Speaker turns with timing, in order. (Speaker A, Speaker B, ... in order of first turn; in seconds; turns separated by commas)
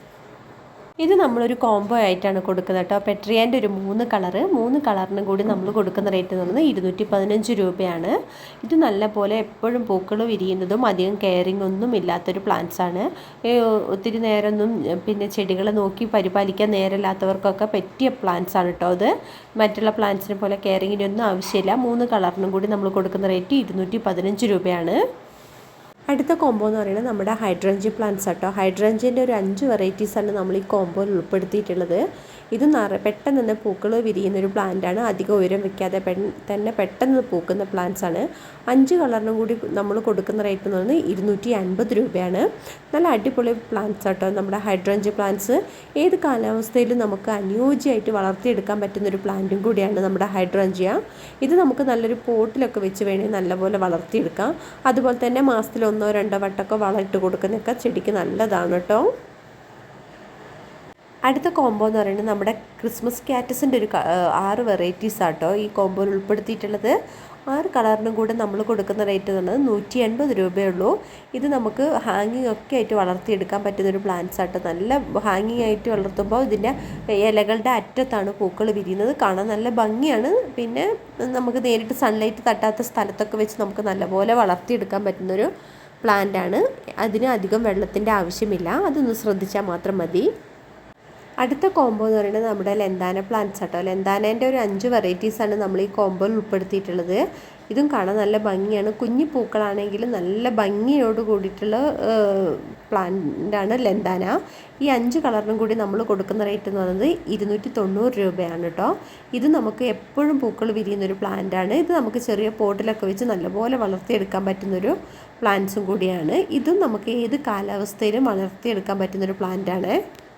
Speaker A: 1.0-25.0, Speaker A: 26.1-59.1, Speaker A: 61.3-66.9, Speaker A: 67.5-85.5, Speaker A: 86.0-90.3, Speaker A: 91.4-120.0